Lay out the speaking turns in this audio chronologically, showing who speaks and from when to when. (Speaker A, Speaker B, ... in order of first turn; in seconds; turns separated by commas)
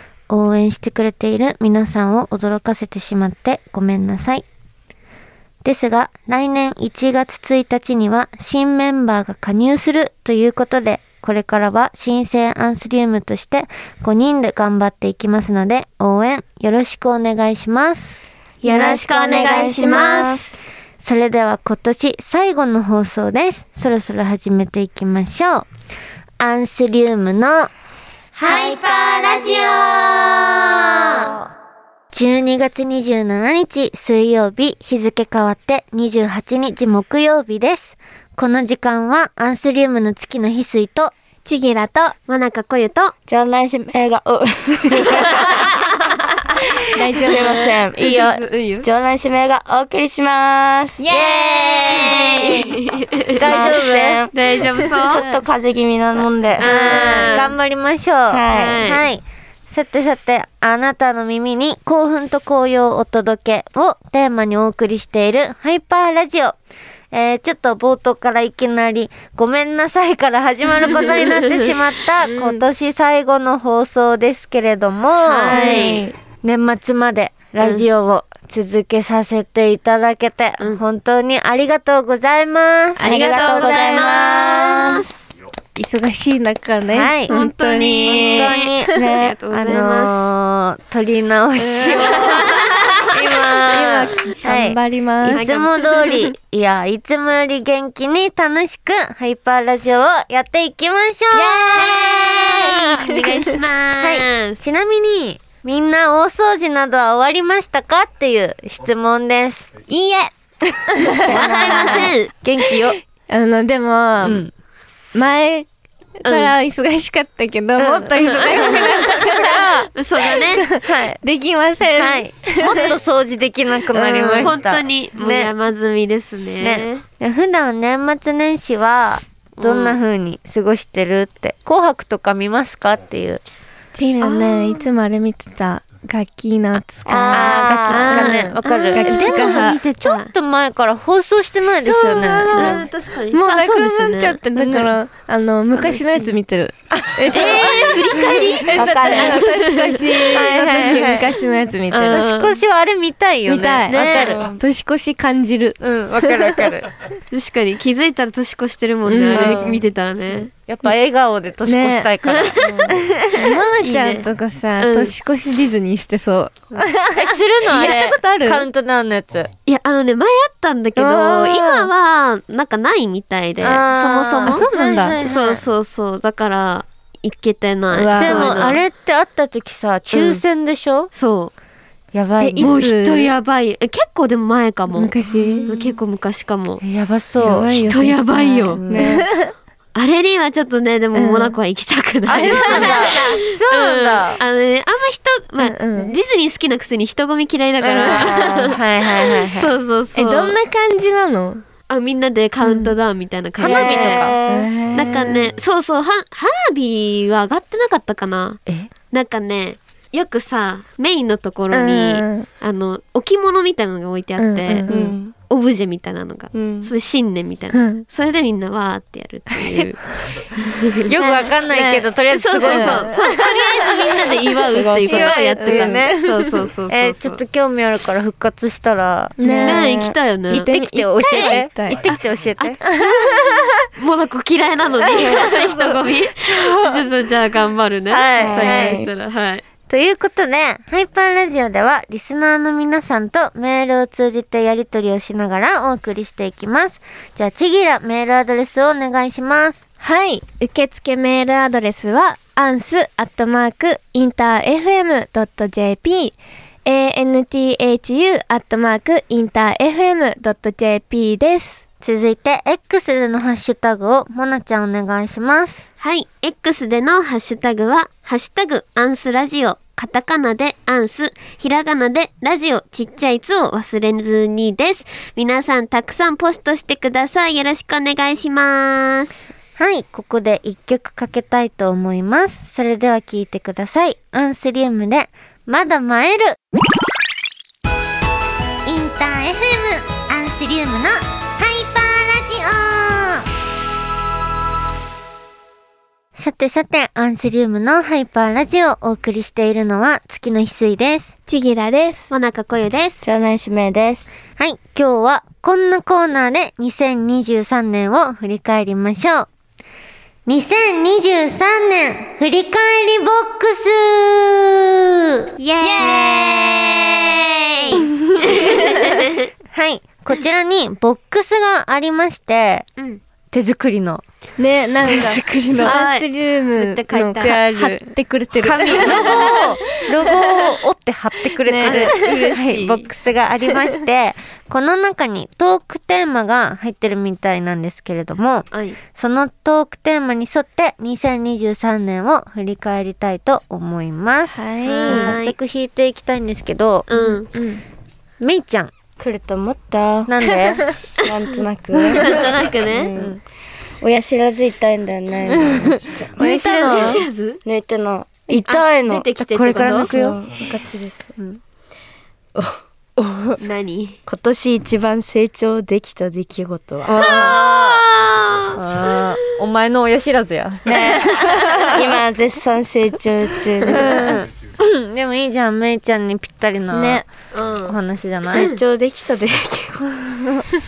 Speaker A: 0.3-4.4, Speaker A: 5.6-18.1, Speaker B: 18.6-20.5, Speaker C: 18.6-20.4, Speaker A: 19.3-19.8, Speaker A: 21.0-25.7, Speaker A: 26.4-27.7, Speaker A: 28.4-31.3, Speaker B: 28.4-29.5, Speaker A: 32.1-41.1, Speaker C: 41.4-42.1, Speaker B: 42.3-43.1, Speaker D: 43.3-45.8, Speaker C: 46.9-47.7, Speaker D: 47.2-48.0, Speaker A: 47.9-48.4, Speaker B: 48.0-48.9, Speaker D: 48.8-51.0, Speaker C: 51.0-52.7, Speaker A: 51.1-54.2, Speaker B: 51.9-53.7, Speaker D: 53.4-56.7, Speaker B: 54.3-55.2, Speaker A: 55.2-55.4, Speaker A: 56.5-66.5, Speaker B: 56.6-57.5, Speaker D: 58.3-58.9, Speaker B: 58.5-59.0, Speaker A: 67.1-85.0, Speaker B: 70.9-71.7, Speaker C: 72.2-72.6, Speaker B: 75.2-76.0, Speaker D: 75.4-76.2, Speaker B: 77.6-77.8, Speaker B: 83.0-85.2, Speaker D: 83.0-84.7, Speaker C: 85.8-89.2, Speaker A: 86.9-87.3, Speaker B: 87.3-90.2, Speaker A: 88.0-88.9, Speaker D: 88.9-89.4, Speaker A: 89.5-103.1, Speaker C: 91.6-92.6, Speaker B: 92.0-93.2, Speaker C: 93.5-95.4, Speaker B: 95.3-96.3, Speaker C: 101.3-103.5, Speaker B: 101.7-104.6, Speaker A: 104.0-109.7, Speaker C: 109.9-110.3, Speaker C: 110.8-112.1, Speaker A: 111.2-113.0, Speaker B: 111.2-112.3, Speaker C: 112.8-114.4, Speaker A: 114.2-114.5, Speaker C: 115.1-115.7, Speaker C: 116.2-119.7, Speaker B: 116.2-116.5, Speaker A: 117.8-119.9, Speaker B: 118.2-119.0, Speaker B: 119.9-120.7, Speaker C: 120.2-122.9, Speaker A: 120.8-121.2, Speaker A: 121.9-125.5, Speaker B: 124.0-127.0, Speaker C: 124.1-124.5, Speaker A: 126.6-133.4, Speaker B: 129.6-130.0, Speaker C: 133.9-139.8, Speaker B: 134.2-134.9, Speaker D: 137.1-138.0, Speaker A: 137.3-142.8, Speaker B: 137.4-140.3, Speaker C: 141.8-152.2, Speaker B: 142.5-144.4, Speaker A: 144.5-144.9, Speaker B: 145.9-146.3, Speaker A: 146.9-147.9, Speaker B: 147.3-150.5, Speaker D: 148.7-149.4, Speaker A: 150.3-151.3, Speaker B: 151.9-152.6, Speaker A: 152.1-154.5, Speaker C: 153.5-156.5, Speaker B: 153.8-154.5, Speaker D: 154.2-154.6, Speaker A: 155.8-156.9, Speaker B: 157.3-160.5, Speaker C: 159.1-159.8, Speaker A: 159.3-159.8, Speaker A: 160.7-163.6, Speaker C: 161.7-162.1, Speaker B: 162.2-162.9, Speaker D: 162.6-162.9, Speaker C: 163.3-168.7, Speaker B: 163.8-164.3, Speaker B: 164.8-165.1, Speaker A: 166.7-169.5, Speaker B: 169.7-174.7, Speaker C: 171.0-171.9, Speaker A: 173.6-175.6, Speaker C: 174.4-175.2, Speaker B: 175.2-178.8, Speaker C: 177.9-178.6, Speaker A: 178.2-181.1, Speaker B: 180.1-180.4, Speaker B: 181.1-181.5, Speaker A: 182.1-182.8, Speaker C: 182.4-183.3, Speaker B: 182.6-186.8, Speaker C: 184.9-185.7, Speaker A: 185.4-186.0, Speaker A: 186.8-187.9, Speaker C: 187.4-189.5, Speaker B: 187.9-188.8, Speaker A: 188.7-189.1, Speaker D: 188.9-189.3, Speaker B: 189.9-200.6, Speaker C: 191.1-191.5, Speaker A: 192.2-194.4, Speaker C: 192.3-193.2, Speaker C: 195.6-196.2, Speaker C: 197.8-198.7, Speaker A: 198.1-199.7, Speaker C: 200.1-201.6, Speaker B: 201.9-204.3, Speaker C: 202.6-202.9, Speaker A: 203.6-204.3, Speaker D: 203.6-204.7, Speaker C: 204.5-205.5, Speaker B: 204.9-220.0, Speaker C: 211.7-212.5, Speaker C: 214.4-214.9, Speaker D: 214.9-215.3, Speaker D: 216.5-216.9, Speaker C: 217.7-218.0, Speaker B: 220.6-221.1, Speaker A: 221.0-223.2, Speaker C: 221.2-222.1, Speaker B: 222.3-227.4, Speaker C: 222.6-224.2, Speaker D: 224.7-225.3, Speaker A: 225.0-226.2, Speaker C: 225.1-226.5, Speaker A: 226.9-229.7, Speaker C: 229.4-229.9, Speaker B: 229.5-230.7, Speaker D: 229.7-230.2, Speaker C: 230.5-232.0, Speaker A: 230.5-232.8, Speaker B: 231.3-231.6, Speaker C: 232.8-233.4, Speaker B: 233.0-239.6, Speaker A: 235.0-237.0, Speaker A: 238.1-239.0, Speaker D: 238.4-239.1, Speaker A: 239.9-249.8, Speaker C: 250.0-256.3, Speaker C: 256.9-261.8, Speaker A: 262.0-265.8, Speaker B: 266.0-279.3, Speaker A: 279.8-286.6, Speaker A: 288.9-293.4, Speaker A: 296.4-301.3, Speaker C: 301.5-302.3, Speaker B: 302.3-303.2, Speaker D: 303.2-304.3, Speaker A: 304.6-309.5, Speaker A: 310.4-315.5, Speaker B: 315.6-319.5, Speaker C: 315.8-316.9, Speaker A: 319.7-322.9, Speaker A: 323.5-324.2, Speaker C: 324.6-329.7, Speaker A: 325.0-325.9, Speaker B: 325.8-327.6, Speaker A: 327.4-347.1, Speaker B: 328.8-329.6, Speaker C: 331.6-332.5, Speaker B: 331.8-333.1, Speaker B: 338.7-339.0, Speaker C: 344.5-345.4, Speaker B: 344.9-345.6, Speaker B: 347.1-347.5, Speaker C: 347.1-347.8, Speaker A: 348.4-348.9, Speaker D: 349.2-350.6, Speaker A: 350.2-350.9, Speaker D: 351.2-353.4, Speaker B: 352.2-353.1, Speaker D: 354.0-356.2, Speaker A: 356.1-357.2, Speaker C: 356.4-357.2, Speaker B: 356.4-357.6, Speaker D: 357.6-361.3, Speaker B: 358.5-360.1, Speaker A: 359.4-360.9, Speaker D: 362.5-363.6, Speaker B: 363.6-364.2, Speaker D: 364.2-367.2, Speaker A: 367.0-368.1, Speaker B: 367.1-369.4, Speaker A: 368.7-372.0, Speaker D: 370.9-374.3, Speaker A: 373.9-377.3, Speaker C: 376.9-377.2, Speaker B: 377.5-378.0, Speaker A: 377.9-378.7, Speaker B: 378.5-378.8, Speaker D: 378.5-380.4